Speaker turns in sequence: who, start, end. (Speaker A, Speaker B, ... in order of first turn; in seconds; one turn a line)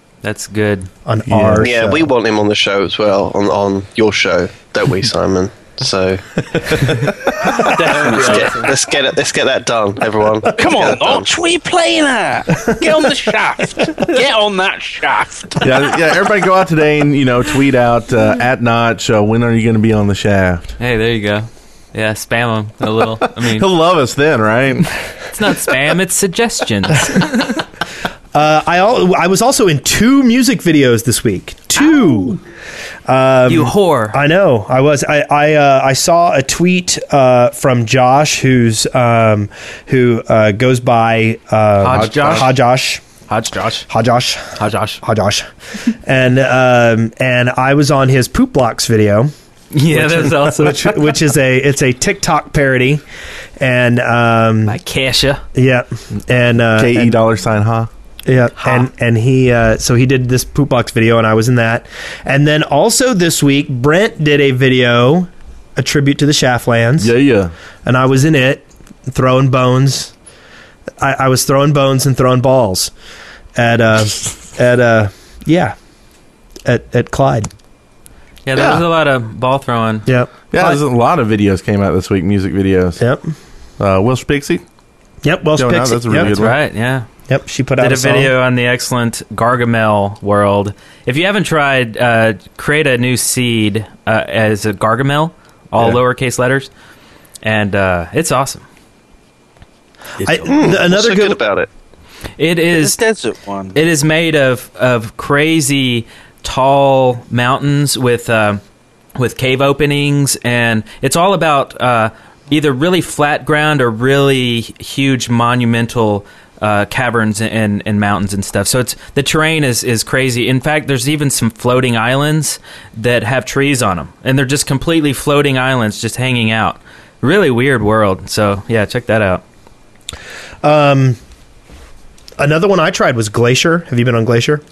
Speaker A: 0.2-0.9
Speaker B: 1.1-2.0
Speaker C: 1.3-1.7
Speaker D: 1.6-11.3
Speaker E: 7.8-8.7
Speaker A: 8.1-8.7
Speaker E: 10.5-15.8
Speaker C: 15.6-20.8
Speaker A: 20.8-23.7
Speaker C: 23.2-24.9
Speaker A: 25.3-27.6
Speaker B: 28.3-32.4
Speaker B: 33.1-43.0
Speaker A: 33.5-34.2
Speaker A: 41.8-42.6
Speaker C: 41.9-42.5
Speaker A: 43.3-43.9
Speaker B: 43.9-45.5
Speaker A: 44.6-45.0
Speaker B: 46.0-49.3
Speaker A: 49.7-51.0
Speaker B: 49.9-53.0
Speaker B: 53.6-54.8
Speaker A: 54.6-55.4
Speaker B: 55.5-57.2
Speaker C: 56.8-57.9
Speaker B: 58.2-67.1
Speaker A: 58.6-58.9
Speaker C: 67.0-67.5
Speaker B: 67.8-70.1
Speaker B: 71.0-72.9
Speaker B: 73.6-75.8
Speaker B: 76.7-77.5
Speaker A: 78.4-80.1
Speaker C: 78.5-78.8
Speaker B: 80.0-80.8
Speaker C: 80.5-83.0
Speaker B: 83.0-83.2
Speaker C: 83.8-84.6
Speaker B: 85.2-86.3
Speaker C: 85.5-86.6
Speaker A: 86.2-87.1
Speaker B: 87.3-88.3
Speaker A: 87.8-96.7
Speaker A: 97.4-98.6
Speaker B: 100.2-101.4
Speaker D: 100.5-101.7
Speaker A: 102.4-103.0
Speaker E: 102.7-103.8
Speaker A: 103.7-108.6
Speaker A: 109.2-129.4
Speaker B: 130.6-131.2
Speaker B: 132.4-134.6